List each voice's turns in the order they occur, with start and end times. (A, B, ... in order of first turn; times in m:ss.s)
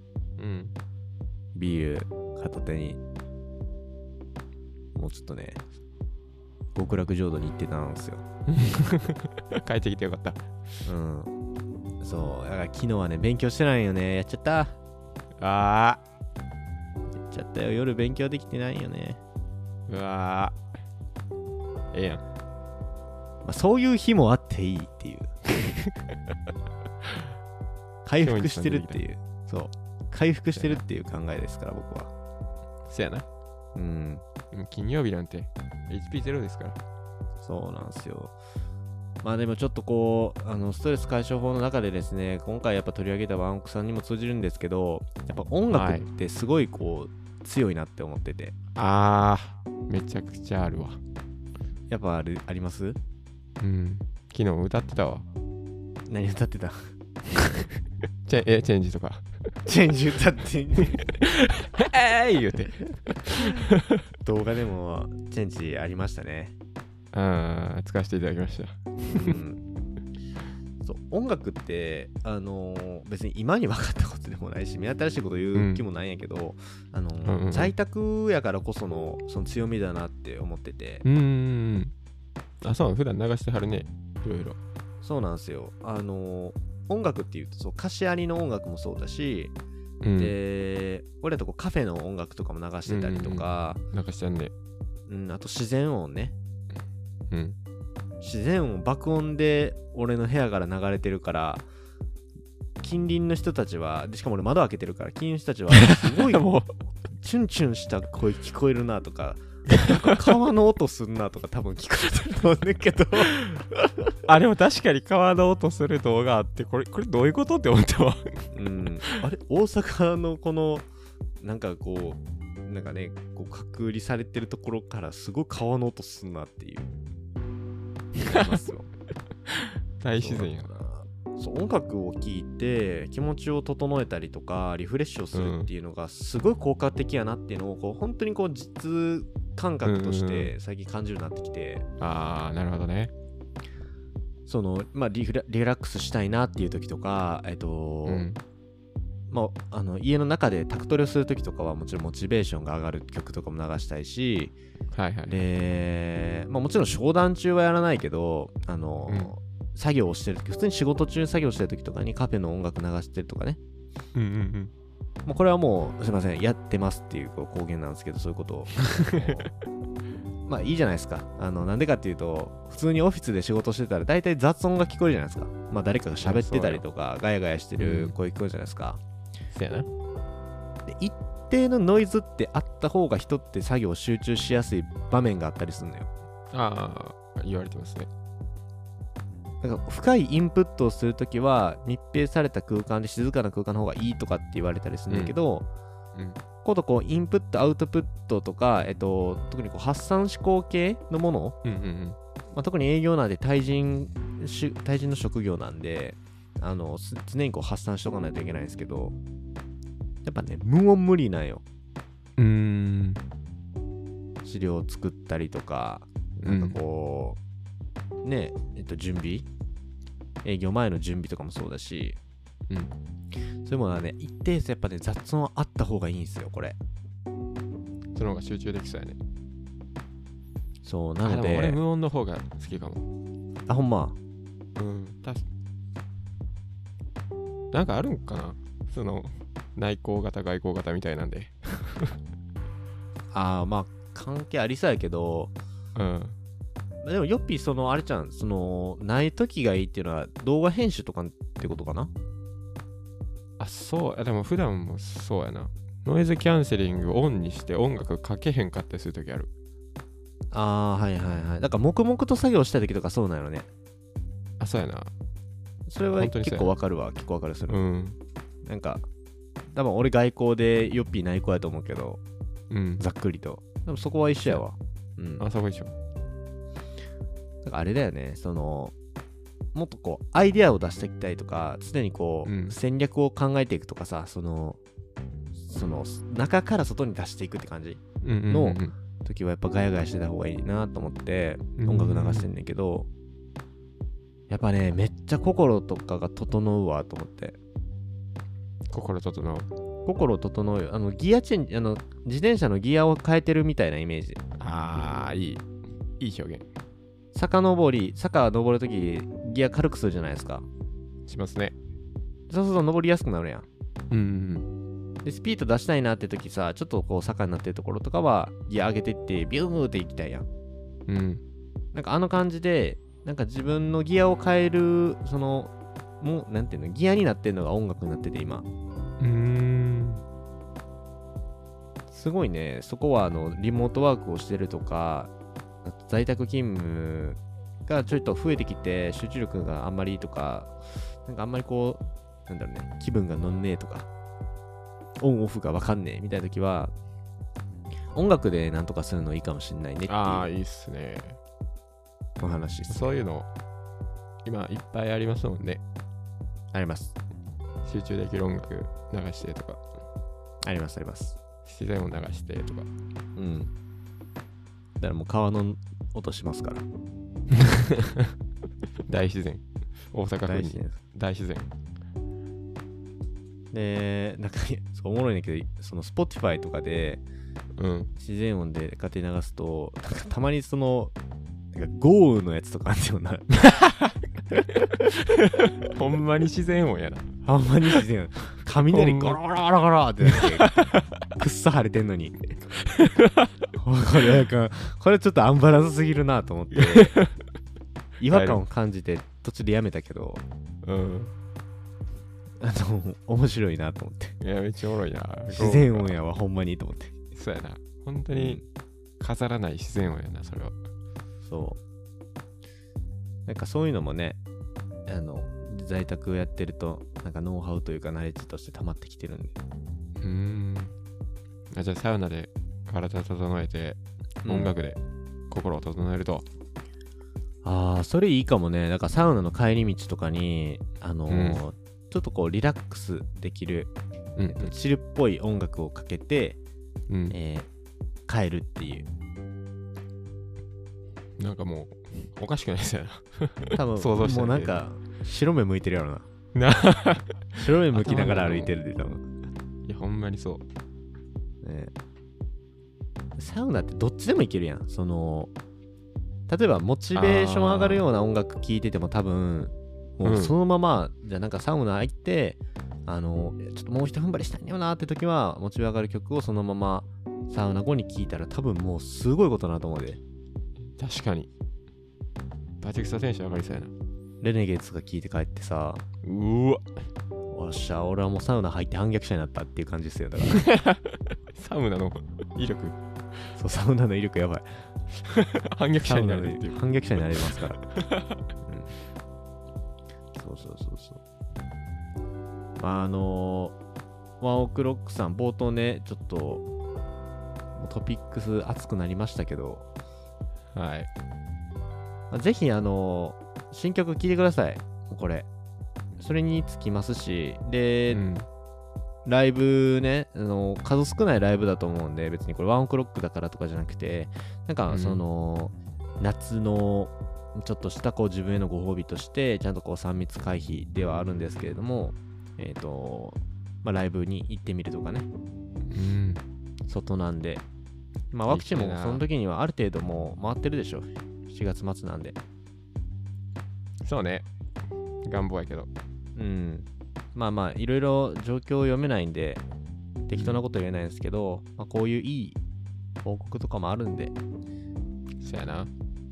0:00.4-0:00.7 A
0:01.6-0:03.0 B
0:05.0-0:05.6 B
0:06.8-0:08.2 B
0:08.5-0:10.4 A
0:10.9-0:11.3 B
0:12.0-0:14.8 B
0:15.4-0:16.0 A
0:17.3-0:19.2 B
0:19.9-0:20.6 A
0:21.9-0:22.2 A
0:23.4-0:25.3 B
0:28.0-0:32.1 B
0:28.2-0:29.0 A
0:30.6-0:30.8 A
0:32.9-0:33.3 A
0:33.8-0:34.2 B
0:34.5-0:36.8 A
0:37.4-0:38.4 B
0:39.2-0:48.6 B
0:45.7-0:46.1 A
0:48.8-0:51.0 A
0:51.9-0:53.0 B
0:53.6-0:55.3 A
0:56.1-0:56.9 B
0:58.2-0:59.3 A
0:59.6-1:01.0 B
1:00.9-1:04.0 A
1:04.2-1:06.6 B
1:07.1-1:09.4 A
1:09.1-1:09.6 B
1:10.8-1:21.0 B
1:15.6-1:15.8 A
1:17.2-1:17.7 A
1:21.0-1:21.9 A
1:22.6-1:24.6 A
1:25.0-1:29.5 B
1:30.0-1:30.3 A
1:30.2-1:33.8 B
1:32.9-1:34.5 A
1:35.1-1:36.4 B
1:37.3-1:37.6 A
1:38.2-1:41.6 B
1:42.8-1:46.4 B
1:45.7-1:46.7 A
1:47.2-1:53.7 B
1:54.3-1:58.5 A
1:58.5-2:00.9 B
2:01.4-2:06.9 B
2:08.2-2:08.5 A
2:08.2-2:08.9 B
2:09.5-2:10.7 A
2:10.2-2:21.9 B
2:15.3-2:15.7 A
2:19.8-2:20.5 A
2:22.0-2:23.1 A
2:24.5-2:28.3 B
2:28.0-2:28.4 A
2:29.3-2:34.6 B
2:34.9-2:35.4 A
2:35.3-2:43.6 B
2:39.1-2:39.3 A
2:44.1-2:44.7 A
2:45.3-2:49.5 B
2:48.9-2:49.4 A
2:50.5-2:59.0 B
2:56.2-2:56.8 A
2:57.8-2:58.2 A
2:59.5-2:59.9 A
3:00.9-3:06.1 B
3:06.5-3:08.1 A
3:09.6-3:15.6 B
3:15.1-3:15.4 A
3:16.1-3:16.4 A
3:16.6-3:21.6 B
3:21.6-3:22.2 A
3:22.5-3:29.2 B
3:30.2-3:31.6 B
3:32.4-3:33.2 A
3:34.4-3:37.4 B
3:36.4-3:36.8 A
3:38.2-3:39.5 B
3:40.4-3:42.2 B
3:42.7-3:42.9 A
3:43.6-3:46.8 B
3:48.1-3:49.2 A
3:50.8-3:51.8 B
3:51.2-3:53.1 A
3:53.7-3:54.2 B
3:54.8-3:55.4 A
3:57.7-4:02.2 A
4:03.3-4:05.5 B
4:05.9-4:06.4 A
4:07.0-4:12.1 B
4:13.6-4:19.5 A
4:20.5-4:23.7 B
4:24.6-4:25.1 A
4:25.9-4:27.8 B
4:26.2-4:26.7 A
4:27.7-4:28.2 A
4:28.6-4:29.1 B
4:29.7-4:32.2 B
4:32.7-4:33.0 A
4:33.0-4:35.4 B
4:35.4-4:35.9 A
4:37.6-4:38.9 B
4:39.7-4:44.8 B
4:42.4-4:42.8 A
4:45.6-4:53.1 B
4:48.2-4:48.9 A
4:51.8-4:52.5 A
4:54.5-4:57.6 B
4:58.9-4:59.7 A
5:00.0-5:04.4 B
5:04.6-5:05.6 A
5:06.2-5:06.6 A
5:07.3-5:10.6 B
5:11.3-5:11.8 A
5:12.5-5:13.6 B
5:14.1-5:14.7 A
5:15.2-5:20.5 B
5:21.1-5:21.4 A
5:21.9-5:28.6 B
5:29.2-5:30.2 A
5:32.1-5:35.3 B
5:35.8-5:40.7 B
5:41.2-5:44.1 B
5:45.2-5:46.9 B
5:48.1-5:50.4 B
5:50.1-5:51.4 A
5:52.4-5:53.0 B
5:52.9-5:53.5 A
5:54.4-5:55.8 A
5:56.7-5:57.2 B
5:57.8-5:59.8 A
6:00.6-6:01.4 B
6:01.6-6:02.9 A
6:03.4-6:03.7 B
6:05.0-6:06.9 B
6:07.5-6:08.3 A
6:09.0-6:11.7 A
6:10.4-6:11.0 B
6:13.7-6:17.2 B
6:17.8-6:18.1 A
6:18.2-6:21.1 B
6:21.7-6:23.5 B
6:23.7-6:24.2 A
6:24.9-6:27.3 A
6:27.4-6:30.8 B
6:28.9-6:29.7 A
6:30.2-6:31.2 A
6:31.3-6:32.5 B
6:32.8-6:33.7 A
6:33.8-6:37.1 B
6:36.8-6:37.4 A
6:38.2-6:40.4 B
6:38.3-6:38.6 A
6:40.8-6:41.3 A
6:42.6-6:44.4 B
6:44.4-6:46.1 A
6:45.5-6:47.1 B
6:47.3-6:48.6 A
6:48.3-6:48.6 B
6:49.2-6:50.8 A
6:51.4-6:51.8 B
6:53.4-6:54.4 B
6:55.1-6:59.6 B
7:00.2-7:00.9 A
7:01.7-7:05.0 A
7:04.4-7:04.7 B
7:05.5-7:06.4 A
7:07.6-7:13.9 B
7:11.3-7:11.6 A
7:14.4-7:14.7 A
7:14.5-7:16.6 B
7:17.1-7:17.4 A
7:17.3-7:17.7 B
7:18.3-7:19.1 B
7:21.4-7:24.8 A
7:23.8-7:26.3 B
7:26.6-7:28.7 A
7:27.6-7:29.3 B
7:29.8-7:30.6 A
7:31.6-7:31.9 B
7:33.4-7:35.5 B
7:36.5-7:50.2 B
7:37.1-7:38.0 A
7:40.2-7:40.6 A
7:50.9-7:51.5 A
7:52.8-7:53.9 A
7:54.4-7:56.0 B
7:56.2-7:56.9 A
7:57.5-8:00.6 B
8:00.4-8:03.0 A
8:03.6-8:04.7 B
8:05.2-8:06.8 A
8:06.0-8:07.8 B
8:07.4-8:08.4 A
8:08.6-8:08.9 B
8:10.4-8:11.2 B
8:12.8-8:13.8 B
8:14.4-8:16.6 B
8:17.8-8:19.9 B
8:20.7-8:21.1 A
8:22.3-8:25.5 B
8:26.2-8:28.2 B
8:28.1-8:28.5 A
8:29.3-8:45.3 B
8:34.9-8:35.2 A
8:45.9-8:46.4 A
8:46.9-8:47.6 B
8:48.3-8:52.4 B
8:48.5-8:49.2 A
8:54.0-8:54.4 A
8:55.2-8:55.9 A
8:56.4-8:59.6 B
9:00.3-9:02.6 B
9:00.4-9:00.6 A
9:03.2-9:04.4 B
9:05.4-9:05.9 A